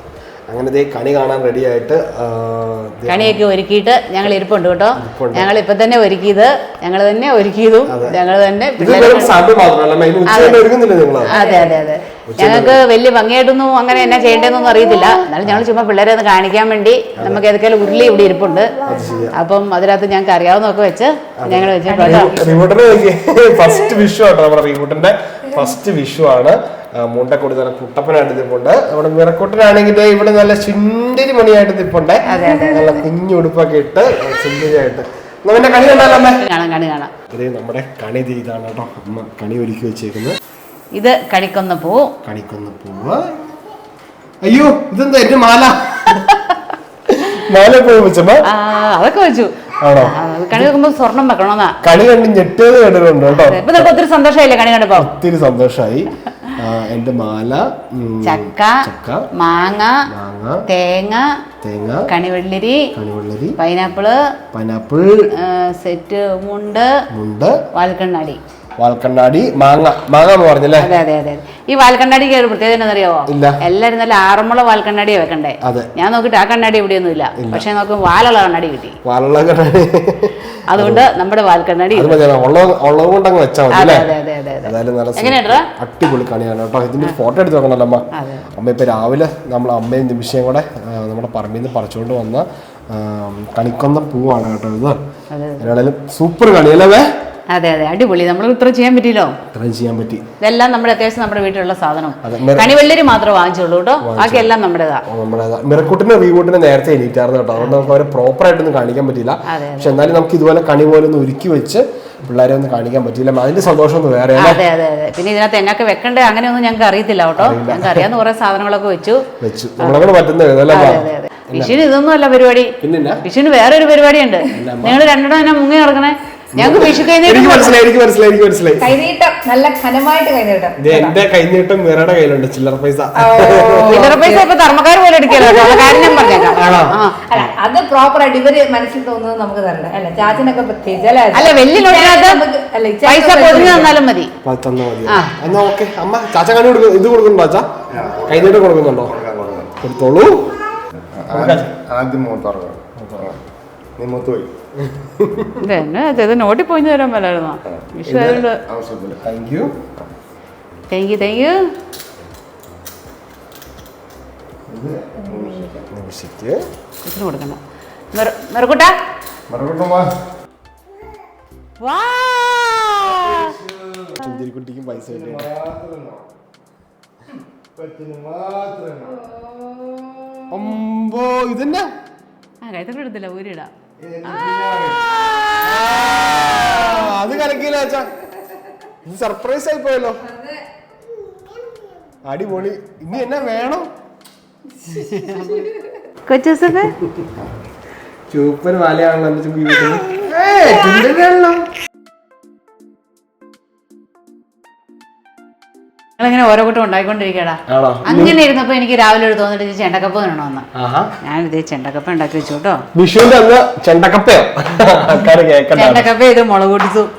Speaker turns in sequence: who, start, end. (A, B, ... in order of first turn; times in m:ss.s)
0:00.5-0:03.4 A
0:03.1-0:09.4 B
0:05.0-0:05.5 A
0:07.9-0:08.2 A
0:08.8-0:11.3 A
0:10.3-0:10.6 B
0:11.2-0:22.4 B
0:11.3-0:11.8 C
0:12.3-0:12.8 A
0:17.2-0:17.4 A
0:18.8-0:19.4 A
0:21.4-0:36.4 A
0:21.9-0:22.6 C
0:32.3-0:33.0 B
0:32.3-0:33.0 C
0:36.4-0:37.1 B
0:37.3-0:40.4 A
0:40.9-0:42.2 B
0:42.2-0:43.4 A
0:44.4-0:46.3 A
0:47.1-0:48.4 A
0:48.4-0:51.8 B
0:49.8-0:50.7 A
0:51.8-0:53.9 A
0:53.3-0:55.1 B
0:55.0-0:59.3 A
0:58.2-1:00.1 B
1:00.1-1:00.6 A
1:00.7-1:01.4 B
1:01.6-1:02.1 A
1:02.1-1:02.9 B
1:03.0-1:03.6 A
1:03.6-1:04.3 B
1:04.5-1:05.3 A
1:05.3-1:07.0 B
1:07.1-1:07.6 A
1:07.7-1:08.4 B
1:08.8-1:10.9 A
1:10.8-1:19.0 B
1:13.3-1:13.6 A
1:15.6-1:15.9 A
1:17.4-1:17.7 A
1:19.0-1:21.1 A
1:20.7-1:22.2 B
1:21.9-1:24.1 A
1:23.7-1:25.7 B
1:24.6-1:35.0 A
1:28.1-1:28.5 B
1:35.3-1:35.7 B
1:35.6-1:37.1 A
1:37.5-1:39.4 B
1:39.5-1:40.3 A
1:40.4-1:45.0 B
1:42.2-1:42.7 A
1:44.0-1:44.5 A
1:45.1-1:54.6 A
1:47.6-1:48.0 B
1:49.5-1:50.0 B
1:54.4-1:59.3 B
1:57.4-1:58.1 A
1:59.4-2:01.8 A
1:59.8-2:00.1 B
2:00.7-2:07.8 B
2:02.8-2:03.2 A
2:04.5-2:05.0 A
2:06.6-2:09.0 A
2:08.8-2:11.2 C
2:10.8-2:14.2 A
2:13.2-2:14.5 C
2:13.9-2:17.2 B
2:15.4-2:17.0 A
2:15.5-2:16.5 C
2:17.2-2:24.0 C
2:21.3-2:22.4 B
2:23.0-2:24.3 B
2:24.4-2:27.7 A
2:27.9-2:29.7 D
2:28.3-2:29.2 A
2:29.8-2:30.6 A
2:31.2-2:33.4 D
2:31.3-2:31.7 A
2:33.0-2:33.3 A
2:34.0-2:34.5 D
2:35.2-2:35.6 A
2:35.6-2:38.6 B
2:38.1-2:38.4 A
2:38.6-2:39.2 D
2:39.2-2:39.8 A
2:40.9-2:41.6 B
2:44.7-2:45.8 D
2:45.3-2:45.8 C
2:45.9-2:46.6 A
2:47.0-2:47.6 B
2:48.1-2:49.0 B
2:49.5-2:50.1 D
2:51.8-2:53.6 B
2:53.0-2:54.3 D
2:54.2-2:55.5 A
2:55.0-2:56.3 D
2:57.8-2:59.2 D
3:00.5-3:01.9 A
3:02.6-3:03.7 B
3:04.0-3:05.1 D
3:05.6-3:08.1 A
3:09.0-3:10.2 A
3:10.2-3:10.6 C
3:12.2-3:13.9 A
3:14.9-3:15.6 A
3:16.3-3:17.0 B
3:18.3-3:21.7 A
3:26.2-3:30.7 B
3:27.7-3:28.4 A
3:30.8-3:31.1 A
3:31.2-3:32.8 B
3:32.9-3:36.1 A
3:35.8-3:37.1 B